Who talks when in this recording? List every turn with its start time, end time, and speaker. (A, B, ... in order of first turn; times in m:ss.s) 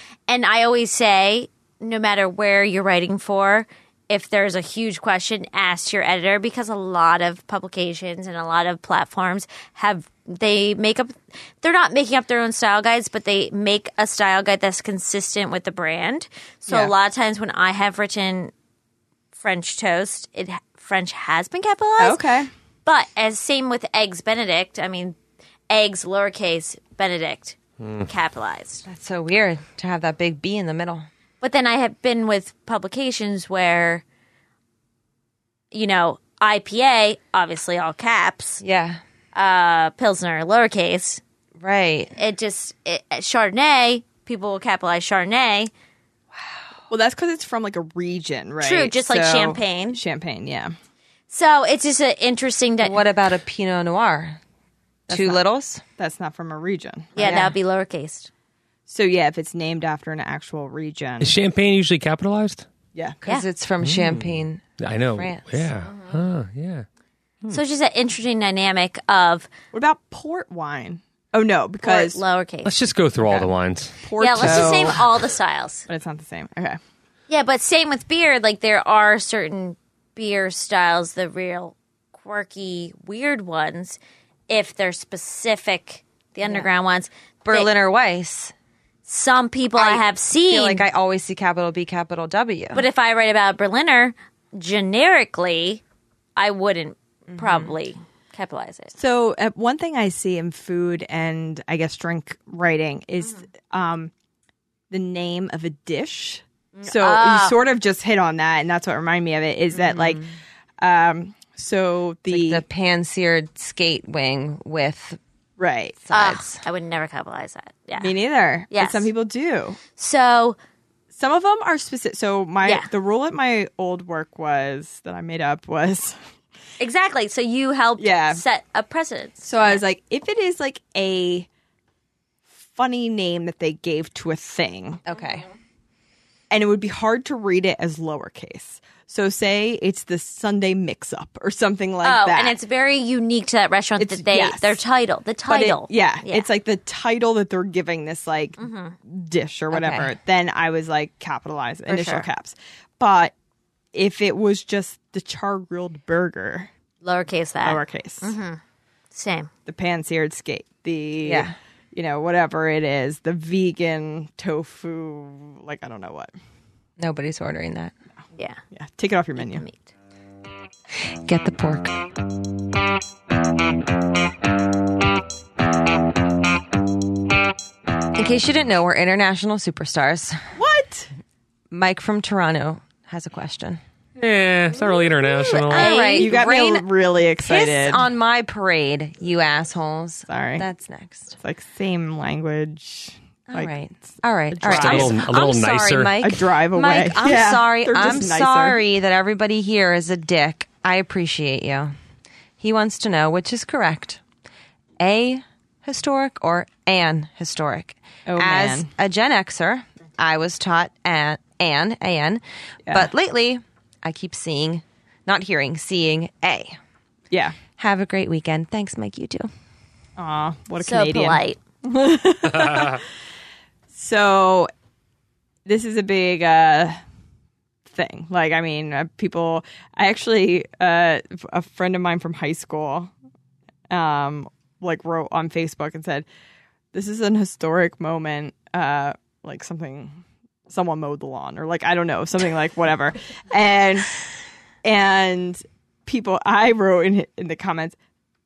0:00.3-0:18.5 A
0:16.7-0:16.9 B
0:19.3-0:22.2 A
0:22.0-0:22.5 B
0:22.8-0:25.2 A
0:25.7-0:28.8 A
0:27.8-0:28.1 C
0:28.8-0:31.1 D
0:31.4-0:34.0 A
0:35.7-0:38.6 A
0:38.6-0:39.0 D
0:39.3-0:41.2 A
0:41.6-0:42.1 D
0:42.1-0:45.7 A
0:46.9-0:50.7 B
0:48.6-0:50.0 A
0:51.3-0:53.0 A
0:52.8-0:54.4 D
0:55.1-0:55.8 D
0:55.1-0:55.4 B
0:56.0-0:57.4 B
0:57.2-0:58.3 A
0:57.2-0:57.5 D
0:58.9-1:01.3 B
1:01.2-1:02.7 C
1:03.2-1:04.6 D
1:03.8-1:06.8 C
1:05.1-1:05.6 D
1:07.5-1:09.5 A
1:09.7-1:12.2 B
1:11.8-1:12.7 A
1:12.6-1:15.0 C
1:13.2-1:15.0 B
1:14.2-1:15.8 A
1:15.9-1:16.8 B
1:17.3-1:27.7 A
1:26.4-1:26.7 D
1:27.4-1:28.5 D
1:29.0-1:30.8 A
1:29.7-1:32.8 D
1:32.7-1:35.8 A
1:36.4-1:38.9 A
1:37.3-1:37.7 D
1:38.9-1:44.1 B
1:44.9-1:52.6 B
1:46.7-1:47.6 A
1:49.7-1:50.2 D
1:52.3-1:55.2 D
1:55.6-1:56.0 B
1:56.0-1:56.6 D
1:56.1-1:58.1 A
1:58.0-1:59.8 B
1:58.7-1:59.1 A
2:00.0-2:00.6 A
2:01.1-2:06.2 B
2:06.8-2:09.8 A
2:08.0-2:08.4 B
2:09.4-2:11.5 B
2:12.6-2:15.0 B
2:15.0-2:15.4 D
2:16.5-2:22.6 B
2:22.0-2:26.5 A
2:24.0-2:24.8 B
2:25.5-2:33.3 B
2:28.6-2:29.0 A
2:29.7-2:30.1 D
2:31.9-2:32.2 A
2:33.9-2:36.7 B
2:37.0-2:38.6 A
2:37.6-2:38.3 B
2:39.1-2:39.5 A
2:39.6-2:46.3 B
2:41.2-2:41.5 D
2:47.0-2:47.9 D
2:48.7-2:49.6 B
2:49.4-2:49.9 A
2:50.9-2:52.0 D
2:58.1-3:00.4 D
3:00.5-3:01.1 B
3:01.7-3:03.8 D
3:04.2-3:06.0 C
3:05.5-3:06.4 A
3:05.5-3:11.4 D
3:06.1-3:08.0 B
3:10.3-3:10.6 B
3:11.4-3:15.2 B
3:13.5-3:21.9 D
3:14.6-3:16.2 C
3:16.2-3:18.8 B
3:22.6-3:24.2 D
3:25.0-3:36.8 D
3:28.3-3:28.9 B
3:37.3-3:37.6 B
3:37.8-3:39.5 D
3:40.2-3:43.0 B
3:40.8-3:41.6 A
3:43.9-3:44.7 B
3:45.6-3:47.0 B
3:47.8-3:53.1 B
3:53.9-3:56.2 B
3:56.9-4:04.2 B
4:04.8-4:08.0 B